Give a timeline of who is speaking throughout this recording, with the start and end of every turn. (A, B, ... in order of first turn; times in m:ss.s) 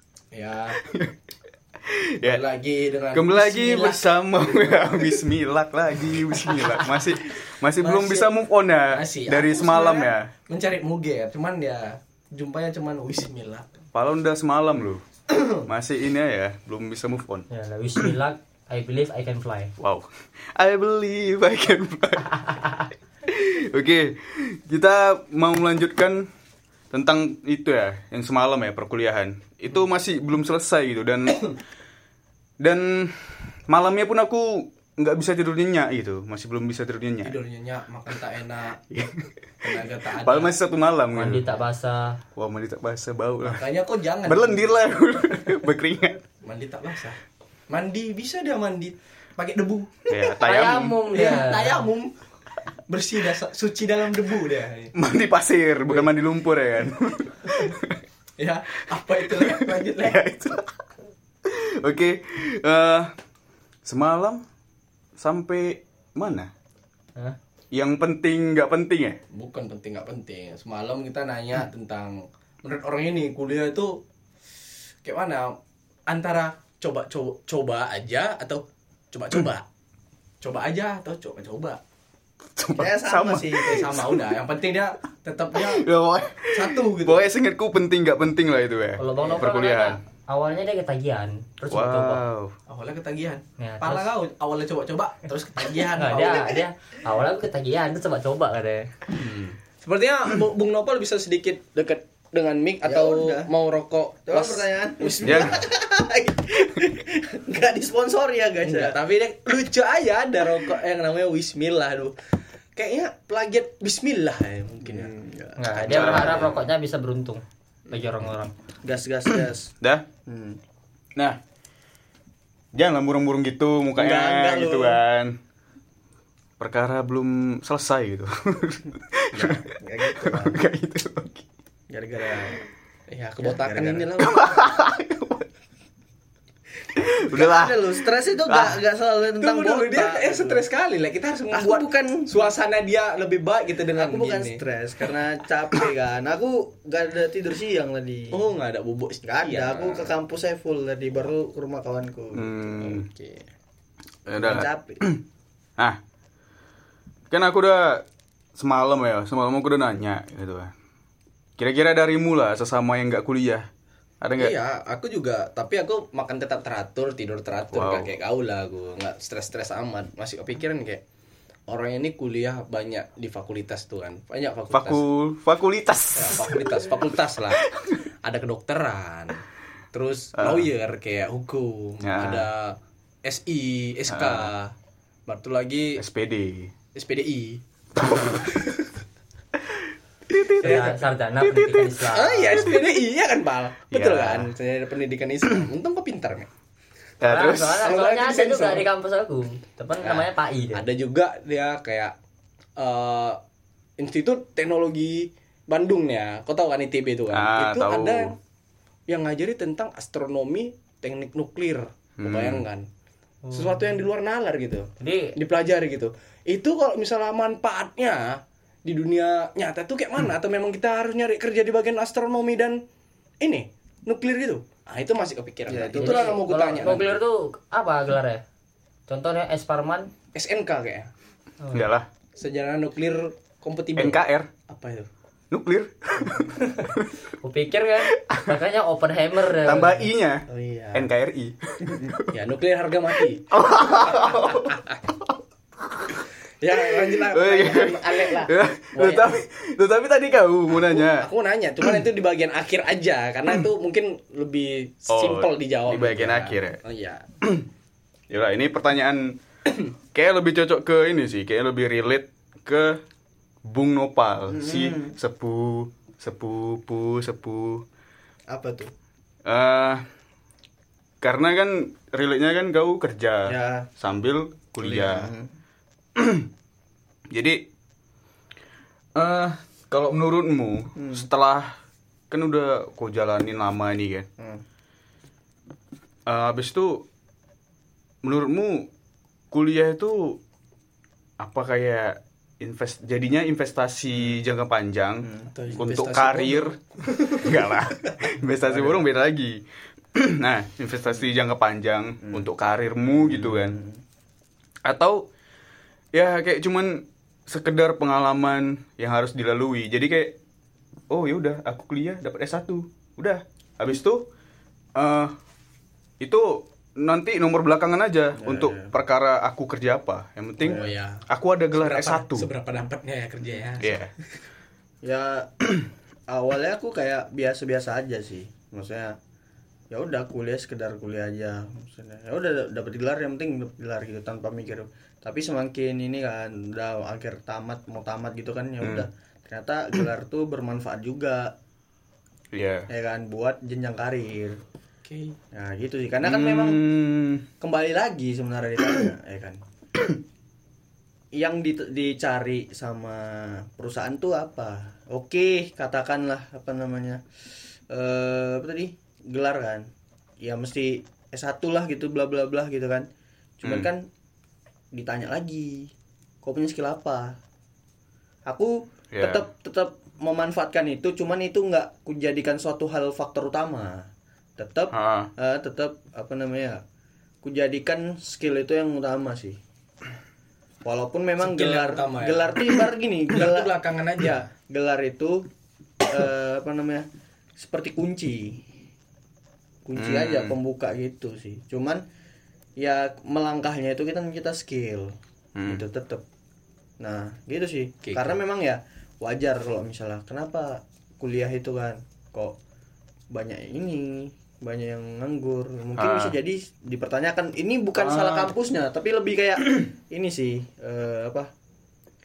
0:00.3-0:00.8 A
0:00.8-0:01.2 B
0:01.8-0:02.4 B
0:02.2-0:04.1 A
0:03.1-0:10.3 B
0:06.6-0:07.0 A
0:07.8-0:08.3 A
0:08.9-0:13.6 A
0:13.9-0:15.0 B
0:15.3-0:15.7 A
0:15.6-0:17.4 B
0:17.5-0:19.7 C
0:19.8-0:22.6 B
0:23.2-0:26.3 B
0:26.9-0:31.5 B
0:32.6-0:37.4 B
0:37.2-0:38.8 A
0:38.9-0:39.7 B
0:39.6-0:40.5 A
0:40.2-0:41.4 B
0:41.1-0:42.2 C
0:42.4-0:43.6 B
0:43.4-0:44.7 A
0:44.2-0:46.2 B
0:46.4-0:47.2 A
0:47.7-0:50.1 A
0:50.1-0:51.0 B
0:50.4-0:51.9 C
0:51.1-0:52.2 A
0:52.9-0:54.9 A
0:54.9-0:58.0 B
0:58.4-1:00.2 A
0:59.2-1:00.7 B
1:01.4-1:03.1 B
1:03.8-1:04.4 B
1:05.2-1:06.5 B
1:07.7-1:09.2 B
1:09.3-1:14.0 A
1:15.0-1:19.6 A
1:20.4-1:21.8 A
1:22.6-1:24.4 B
1:22.7-1:23.9 D
1:23.6-1:25.8 A
1:25.5-1:30.0 B
1:26.5-1:27.2 A
1:29.0-1:32.2 C
1:31.7-1:32.5 B
1:32.7-1:36.6 A
1:33.6-1:34.1 C
1:36.0-1:38.9 C
1:39.1-1:45.6 A
1:42.8-1:43.5 D
1:44.3-1:49.0 D
1:45.2-1:45.6 B
1:48.6-1:55.1 A
1:54.8-1:56.6 D
1:55.6-1:58.5 C
1:55.9-1:56.5 B
1:58.8-1:59.7 D
1:59.3-2:00.0 B
2:00.2-2:00.6 D
2:02.7-2:05.3 B
2:04.0-2:05.0 D
2:06.6-2:11.5 B
2:09.3-2:10.6 D
2:11.9-2:12.6 D
2:13.1-2:14.6 A
2:13.4-2:14.1 D
2:14.2-2:15.5 B
2:17.0-2:18.8 B
2:17.0-2:20.6 D
2:19.4-2:25.1 A
2:21.5-2:22.4 D
2:23.9-2:28.4 D
2:28.3-2:30.2 A
2:29.2-2:32.6 D
2:32.3-2:33.1 B
2:32.8-2:33.5 A
2:34.2-2:35.2 B
2:34.4-2:35.0 D
2:37.3-2:38.0 B
2:38.6-2:40.7 B
2:41.6-2:43.7 B
2:44.2-2:44.5 B
2:44.4-2:51.0 A
2:47.7-2:48.1 B
2:51.7-2:55.0 A
2:54.7-2:56.8 B
2:56.1-2:57.6 A
2:57.5-2:58.0 B
2:58.2-3:04.7 A
3:00.4-3:00.7 B
3:02.0-3:02.4 B
3:04.1-3:04.5 B
3:05.3-3:06.0 A
3:06.0-3:06.7 B
3:06.9-3:08.8 A
3:09.6-3:12.7 B
3:10.6-3:12.7 C
3:10.6-3:11.0 A
3:12.1-3:16.5 A
3:13.9-3:14.5 B
3:17.2-3:17.9 B
3:17.2-3:20.8 C
3:17.8-3:18.8 A
3:20.0-3:22.1 A
3:22.8-3:23.4 A
3:24.0-3:28.4 A
3:27.3-3:28.3 B
3:29.1-3:32.8 A
3:32.2-3:32.6 B
3:33.4-3:34.0 C
3:33.5-3:42.8 A
3:35.0-3:35.4 C
3:43.4-3:47.1 A
3:45.7-3:47.0 D
3:46.0-3:48.4 C
3:49.1-3:50.1 C
3:50.3-3:51.1 A
3:51.6-3:51.9 C
3:51.7-3:52.1 B
3:52.4-3:55.1 A
3:54.0-3:54.5 B
3:55.5-3:57.1 B
3:57.4-4:00.1 C
3:58.1-3:58.6 B
3:59.6-4:02.3 B
4:00.5-4:01.1 D
4:02.3-4:03.4 A
4:03.2-4:11.3 B
4:04.2-4:05.0 A
4:06.6-4:09.4 A
4:10.9-4:17.2 A
4:15.1-4:16.8 B
4:17.4-4:17.7 B
4:18.3-4:19.4 B
4:20.1-4:23.0 B
4:23.7-4:27.8 B
4:24.5-4:25.1 D
4:28.5-4:28.9 D
4:29.4-4:30.0 B
4:31.2-4:35.3 B
4:33.5-4:33.9 D
4:34.8-4:35.5 D
4:36.2-4:36.5 B
4:37.3-4:37.6 B
4:39.1-4:41.8 B
4:41.0-4:41.3 D
4:42.3-4:44.3 B
4:44.4-4:44.6 D
4:46.3-4:47.0 B
4:48.2-4:48.9 B
4:49.5-4:50.4 B
4:51.4-4:59.6 B
4:55.2-4:55.5 D
4:55.5-4:57.4 A
5:00.1-5:03.8 B
5:03.2-5:04.0 D
5:04.8-5:05.3 B
5:06.1-5:10.4 B
5:11.1-5:14.3 B
5:14.9-5:15.4 B
5:16.2-5:22.5 B
5:18.4-5:18.9 D
5:20.6-5:20.9 D
5:20.6-5:21.2 A
5:21.8-5:24.3 A
5:23.8-5:24.1 B
5:25.0-5:25.8 D
5:26.3-5:29.2 D
5:29.9-5:41.5 D
5:38.8-5:39.1 B
5:42.5-5:42.9 B
5:42.9-5:44.6 D
5:45.0-5:45.4 A
5:45.5-5:46.8 D
5:46.2-5:47.4 B
5:47.6-5:49.6 D
5:51.3-5:57.2 D
5:57.9-6:03.1 D
6:03.6-6:04.1 D
6:03.6-6:03.9 B
6:04.9-6:07.4 D
6:08.4-6:16.8 D
6:09.1-6:09.4 B
6:14.9-6:15.3 B
6:17.4-6:19.6 D
6:20.8-6:25.4 D
6:21.4-6:22.6 A
6:23.3-6:24.4 A
6:26.0-6:28.6 D
6:29.8-6:32.0 D
6:30.0-6:30.6 B
6:32.8-6:36.2 D
6:35.6-6:35.8 B
6:37.0-6:42.6 D
6:38.0-6:38.4 A
6:43.3-6:51.5 D
6:46.0-6:46.4 B
6:48.0-6:48.5 B